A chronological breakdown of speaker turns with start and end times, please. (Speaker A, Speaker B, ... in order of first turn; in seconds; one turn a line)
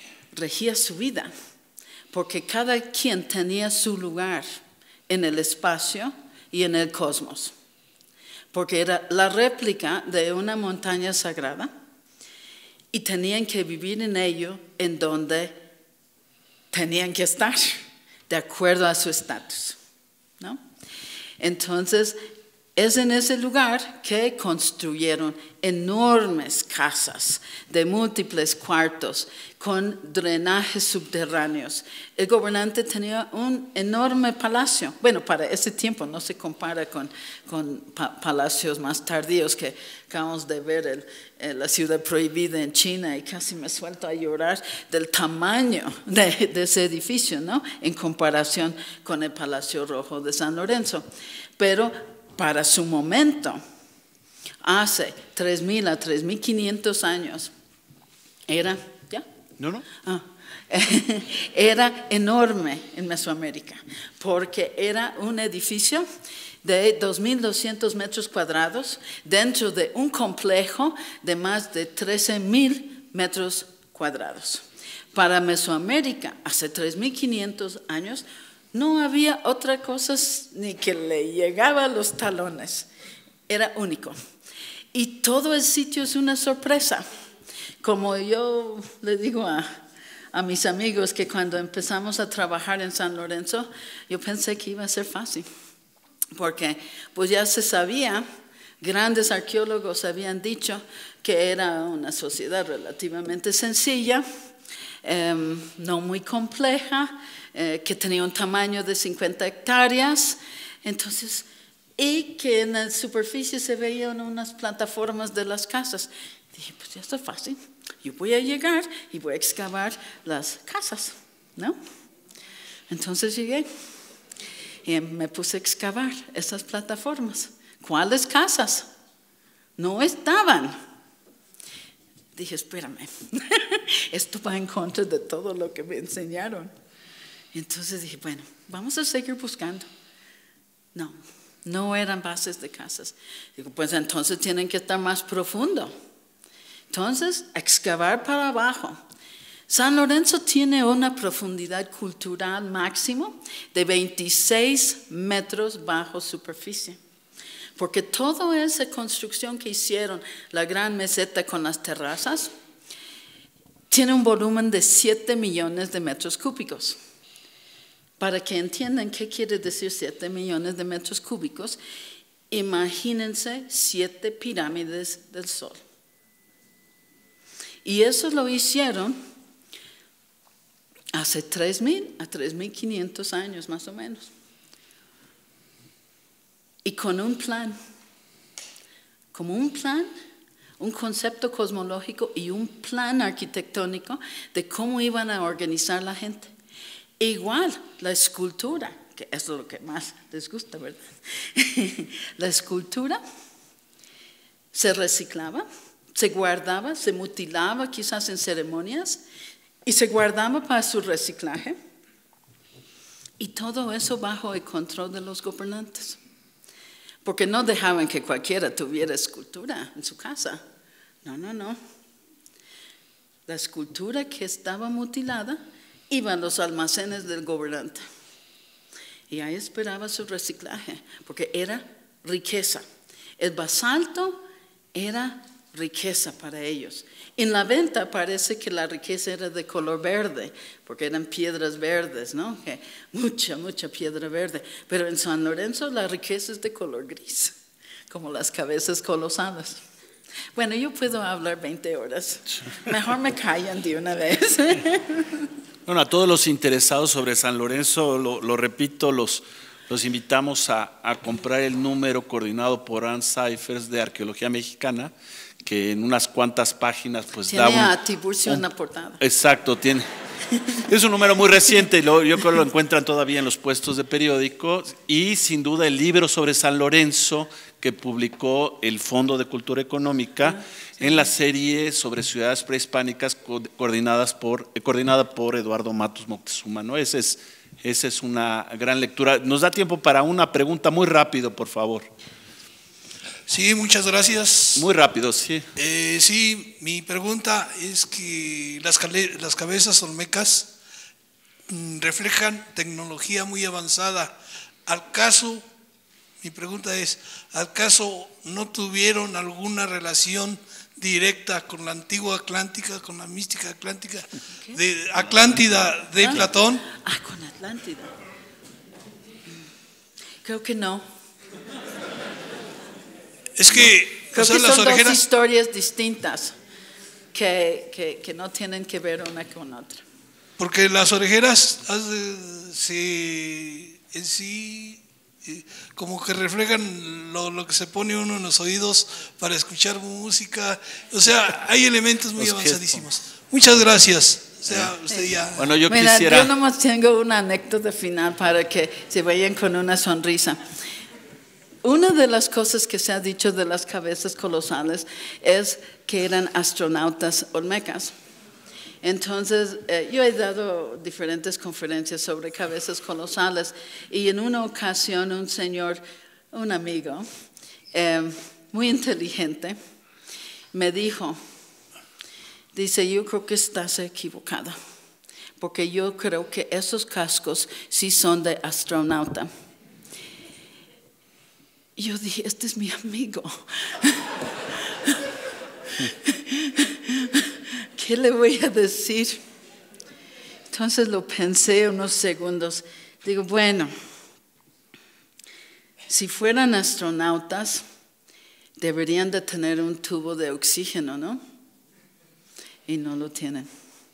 Speaker A: 0.3-1.3
Speaker A: 2.1-7.5
Speaker A: 8.5-11.7
Speaker A: 12.9-15.6
Speaker A: 16.7-19.8
Speaker A: 21.4-22.2
Speaker A: 22.8-51.1
Speaker A: 51.6-53.6
Speaker A: 54.6-57.5
Speaker A: 58.5-59.2
Speaker B: 59.6-59.9
Speaker A: 60.0-66.1
Speaker A: 66.6-82.9
Speaker A: 83.5-84.2
Speaker A: 84.9-87.1
Speaker A: 87.8-89.7
Speaker A: 90.3-95.5
Speaker A: 96.3-98.2
Speaker A: 98.8-104.2
Speaker A: 105.0-111.5
Speaker A: 112.0-121.8
Speaker A: 122.9-123.7
Speaker A: 124.8-128.9
Speaker A: 129.8-130.8
Speaker A: 132.3-136.7
Speaker A: 137.5-139.9
Speaker A: 140.9-145.9
Speaker A: 146.9-149.0
Speaker A: 149.7-157.0
Speaker A: 157.8-162.5
Speaker A: 163.9-167.0
Speaker A: 168.2-171.8
Speaker A: 172.5-175.8
Speaker A: 177.8-179.2
Speaker A: 181.1-184.3
Speaker A: 186.8-187.8
Speaker A: 189.3-190.1
Speaker A: 190.8-196.5
Speaker A: 197.2-203.2
Speaker A: 204.7-209.2
Speaker A: 209.8-211.8
Speaker A: 213.4-216.2
Speaker A: 217.2-220.6
Speaker A: 221.2-221.8
Speaker A: 223.5-225.6
Speaker A: 226.1-228.1
Speaker A: 229.3-232.8
Speaker A: 233.4-234.4
Speaker A: 234.9-247.5
Speaker A: 248.1-249.8
Speaker A: 250.5-255.4
Speaker B: 255.8-265.1
Speaker B: 265.6-267.9
Speaker A: 267.4-269.2
Speaker B: 269.2-270.1
Speaker B: 270.9-292.1
Speaker A: 280.4-281.3
Speaker C: 293.5-294.9
Speaker B: 294.8-295.7
Speaker C: 295.8-300.7
Speaker C: 301.7-305.6
Speaker C: 306.4-316.8
Speaker A: 316.2-318.1
Speaker A: 320.4-321.1
Speaker C: 323.6-325.2
Speaker A: 324.3-326.6
Speaker A: 327.3-330.0
Speaker C: 330.6-345.7
Speaker B: 342.4-343.0
Speaker A: 345.1-345.3
Speaker B: 345.6-346.5
Speaker A: 345.8-350.6
Speaker A: 351.8-358.1
Speaker A: 359.0-367.2
Speaker A: 367.9-369.8
Speaker A: 370.7-371.4
Speaker A: 372.7-374.8
Speaker A: 375.6-379.5
Speaker A: 381.9-384.3
Speaker A: 386.0-389.4
Speaker A: 390.7-393.9
Speaker A: 396.1-397.9
Speaker A: 398.8-401.4
Speaker A: 402.9-403.7